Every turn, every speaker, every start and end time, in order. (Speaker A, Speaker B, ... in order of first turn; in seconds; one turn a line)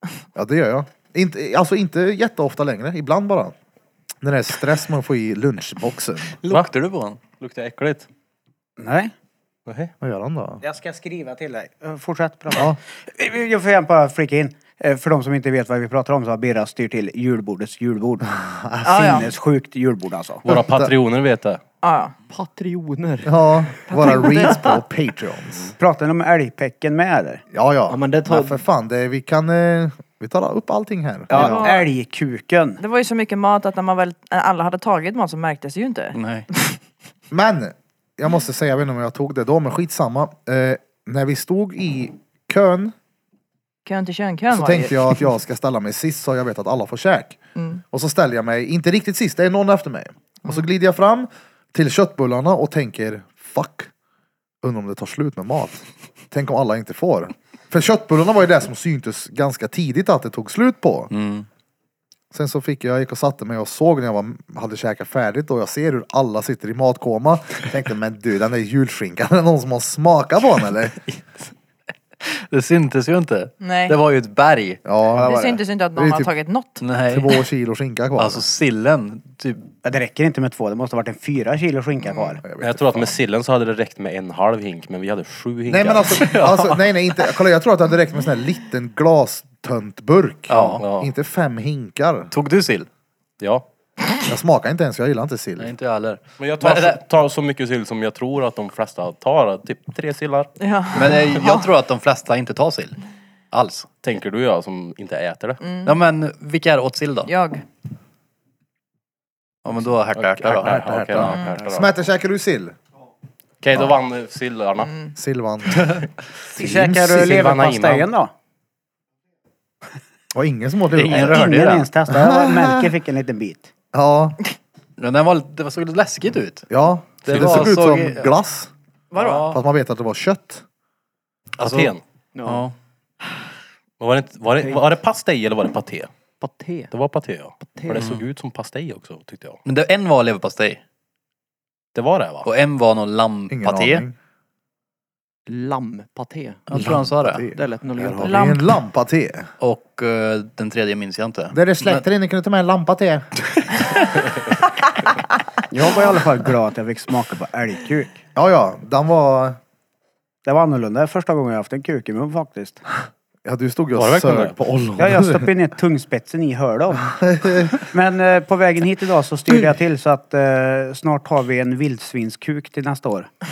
Speaker A: 0.4-3.5
Speaker A: 4.2-6.4
Speaker B: 6.4-7.2
Speaker C: 7.4-8.1
Speaker D: 8.8-9.1
Speaker C: 9.7-9.9
Speaker A: 10.0-10.6
Speaker D: 10.6-18.3
Speaker A: 18.2-19.2
Speaker E: 18.8-19.3
Speaker D: 18.9-20.4
Speaker A: 20.5-20.9
Speaker C: 20.5-21.6
Speaker E: 21.8-22.1
Speaker F: 22.3-23.4
Speaker A: 23.2-25.7
Speaker E: 23.9-24.8
Speaker D: 25.8-27.4
Speaker A: 27.5-31.6
Speaker F: 27.9-28.6
Speaker D: 31.3-32.8
Speaker F: 31.3-31.6
Speaker E: 31.3-31.9
Speaker E: 32.8-36.8
Speaker B: 36.1-36.5
Speaker A: 37.3-42.9
Speaker E: 43.9-45.2
Speaker A: 44.5-47.4
Speaker E: 47.6-47.8
Speaker A: 47.9-53.9
Speaker A: 54.6-61.1
Speaker B: 61.1-61.5
Speaker A: 62.3-71.0
Speaker B: 72.2-74.8
Speaker E: 73.6-74.0
Speaker A: 74.8-75.3
Speaker D: 75.1-75.6
Speaker E: 75.2-76.8
Speaker A: 76.0-76.3
Speaker B: 76.8-77.3
Speaker A: 77.1-78.5
Speaker B: 78.2-79.7
Speaker D: 79.8-82.4
Speaker E: 82.0-82.4
Speaker A: 82.4-83.2
Speaker C: 82.6-86.6
Speaker A: 85.7-92.3
Speaker B: 90.5-90.8
Speaker C: 90.8-91.1
Speaker B: 92.3-92.9
Speaker C: 93.4-93.7
Speaker A: 94.3-95.7
Speaker B: 95.6-97.0
Speaker C: 96.4-100.5
Speaker E: 100.6-101.7
Speaker B: 100.9-103.0
Speaker B: 103.5-103.9
Speaker C: 104.0-105.6
Speaker E: 105.6-106.0
Speaker B: 105.9-107.3
Speaker E: 107.2-107.6
Speaker B: 109.6-111.8
Speaker C: 110.2-111.9
Speaker A: 110.6-112.8
Speaker C: 113.6-114.9
Speaker E: 114.8-115.1
Speaker A: 115.2-116.0
Speaker D: 116.5-118.3
Speaker A: 116.6-117.5
Speaker C: 117.1-118.1
Speaker A: 120.3-122.9
Speaker B: 121.0-121.9
Speaker D: 121.1-123.7
Speaker A: 123.9-124.4
Speaker B: 125.0-126.7
Speaker A: 126.7-128.7
Speaker B: 127.2-128.3
Speaker C: 127.4-127.6
Speaker E: 129.1-129.6
Speaker B: 129.2-129.6
Speaker A: 129.5-130.6
Speaker B: 131.6-132.7
Speaker C: 131.6-132.0
Speaker F: 132.3-132.7
Speaker C: 134.0-136.1
Speaker F: 136.4-136.9
Speaker C: 136.9-139.6
Speaker F: 137.7-138.0
Speaker B: 138.0-138.2
Speaker B: 139.7-140.8
Speaker C: 141.9-142.5
Speaker B: 142.4-144.1
Speaker A: 143.5-144.2
Speaker F: 145.5-146.6
Speaker B: 146.7-147.5
Speaker A: 146.7-149.5
Speaker F: 147.5-148.4
Speaker E: 148.2-148.6
Speaker B: 149.6-152.0
Speaker A: 151.5-153.3
Speaker D: 155.7-158.2
Speaker A: 158.3-159.6
Speaker D: 160.5-162.8
Speaker A: 163.4-165.5
Speaker C: 163.9-164.6
Speaker D: 165.0-167.1
Speaker A: 167.1-167.8
Speaker D: 167.8-173.3